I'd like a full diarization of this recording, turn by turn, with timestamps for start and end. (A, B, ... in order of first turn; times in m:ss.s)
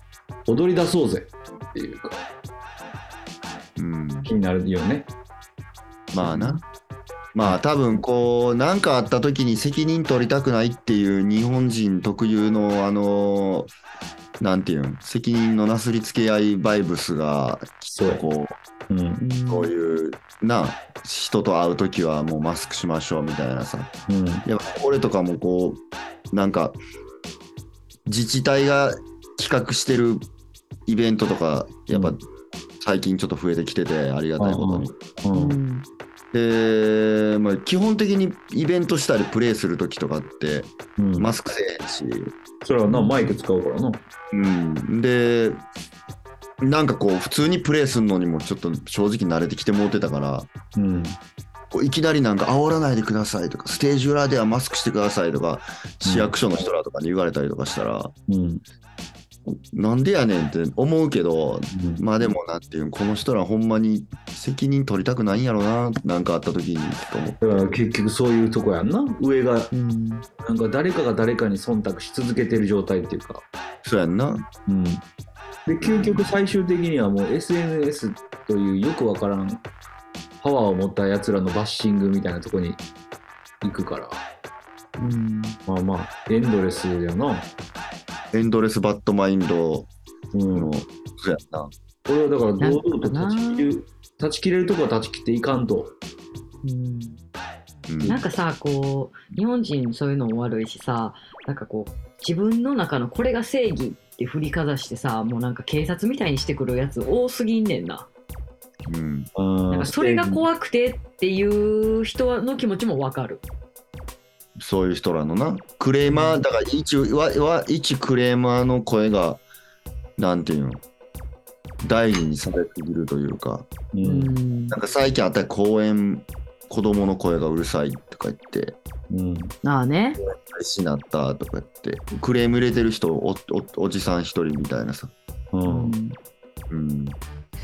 0:00.4-0:02.2 A
0:03.8-0:04.3 B
0:04.2-0:05.1 A
0:06.1-0:06.6 B
0:06.1-0:06.6 C
0:07.3-0:13.7 B
0:14.4-0:18.5 B
0:18.0-0:18.2 A
0:18.9-0:19.2 A
0:19.2-0:19.7 C
0:19.5-0:23.9 B
0:24.1-0:24.4 A
0:24.4-0:25.8 B
0:26.3-0:26.8 B
0:28.0-0:30.2 B
0:30.8-0:32.2 B
0:32.8-0:34.9 B
0:34.4-0:35.6 A
0:35.3-0:35.8 C
0:36.3-0:42.3 B
0:41.0-0:41.3 A
0:42.6-0:44.0 A
0:42.9-0:43.4 C
0:44.3-0:45.6 B
0:46.6-0:50.5 B
0:50.7-0:51.2 A
0:51.7-0:58.1 B
0:56.0-0:56.3 A
0:58.3-0:58.6 A
0:59.5-1:07.8 B
1:01.7-1:02.0 A
1:07.4-1:09.7 A
1:09.7-1:10.2 C
1:10.4-1:13.4 A
1:13.8-1:14.5 B
1:14.7-1:15.0 A
1:15.6-1:19.6 A
1:15.8-1:16.3 B
1:20.4-1:22.8 A
1:23.6-1:24.2 A
1:25.0-1:25.6 C
1:25.7-1:27.5 A
1:28.3-1:29.9 B
1:30.3-1:30.7 A
1:30.5-1:31.7 B
1:32.0-1:35.9 A
1:32.6-1:33.7 C
1:36.6-1:37.2 C
1:37.9-1:38.2 B
1:38.0-1:38.2 A
1:38.1-1:48.1 C
1:48.9-1:49.3 B
1:49.4-1:50.4 A
1:49.7-1:53.4 C
1:54.6-1:59.4 B
1:56.1-1:56.4 C
2:00.2-2:00.8 B
2:01.8-2:03.7 B
2:03.9-2:04.3 A
2:04.0-2:04.8 C
2:04.7-2:08.8 B
2:09.1-2:09.5 A
2:09.6-2:10.2 C
2:10.2-2:15.1 B
2:15.5-2:16.0 A
2:15.6-2:16.2 C
2:16.7-2:17.2 B